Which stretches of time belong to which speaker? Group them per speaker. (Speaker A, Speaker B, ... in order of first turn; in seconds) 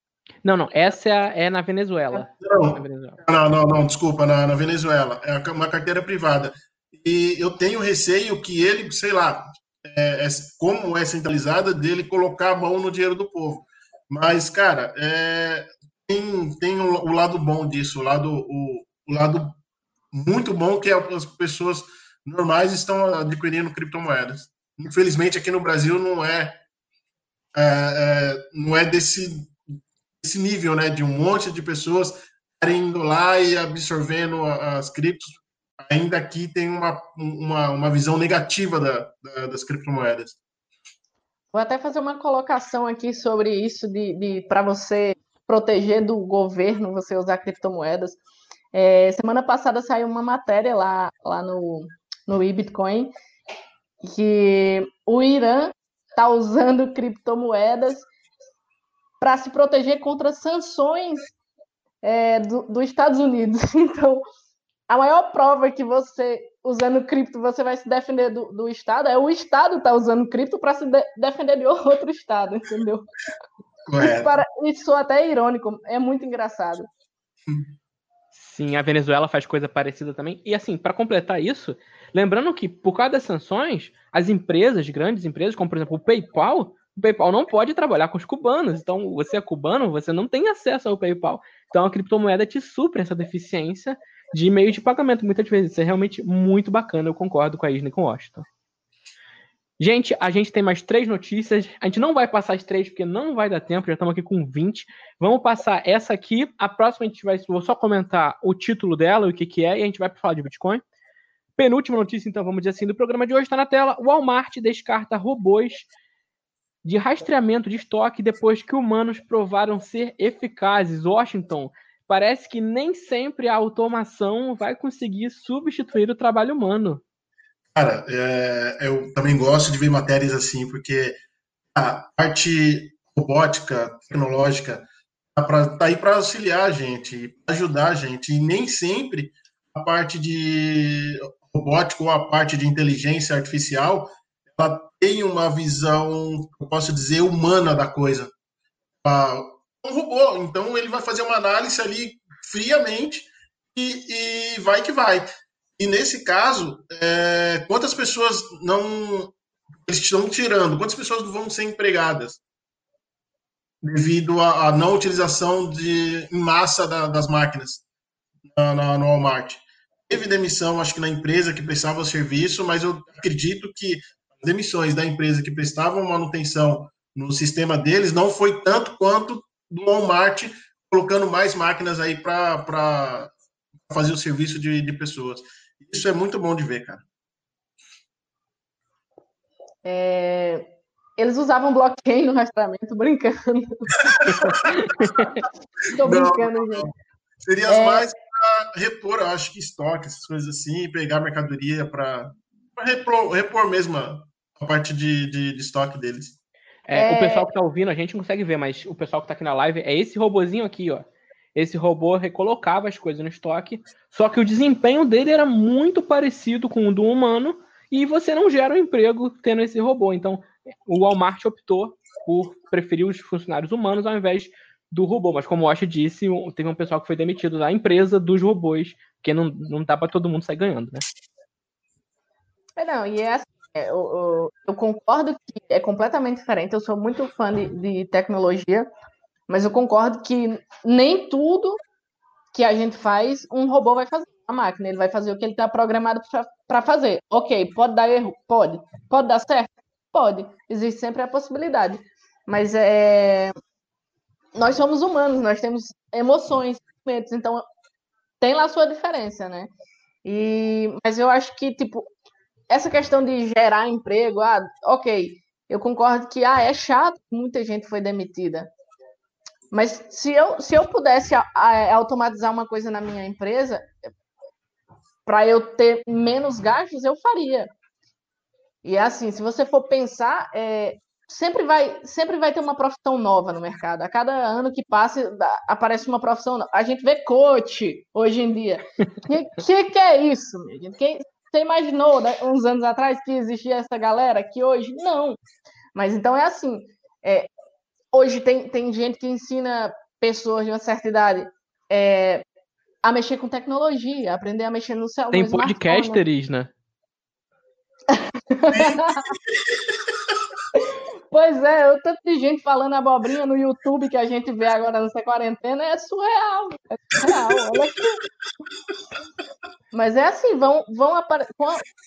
Speaker A: 0.4-3.2, 78.3-98.5, 99.8-110.8, 111.6-115.9, 116.8-127.0, 194.7-195.4, 206.9-231.1, 305.3-306.7
Speaker B: 2.4-19.6, 20.1-26.6, 27.5-29.6, 30.2-40.4, 73.9-74.3, 127.7-131.2, 131.8-148.3, 149.0-162.4, 163.8-167.8, 168.5-183.3, 183.9-187.0, 194.1-194.5, 196.0-196.9, 197.4-206.4, 308.7-310.3, 317.2-317.8
Speaker C: 41.5-48.2, 48.7-53.1, 54.0-58.1, 59.2-61.3, 62.0-64.2, 64.9-73.1, 74.0-76.9, 189.8-195.3, 195.9-196.9, 197.7-198.1, 206.9-207.5, 232.8-238.9, 239.5-241.8, 242.5-253.5, 254.6-257.7, 258.4-259.7, 260.2-262.1, 262.7-268.7, 269.7-273.9, 275.3-277.7, 278.8-295.4, 295.9-297.5, 298.1-302.4, 303.0-306.2, 308.1-309.3, 310.8-318.2, 319.9-321.8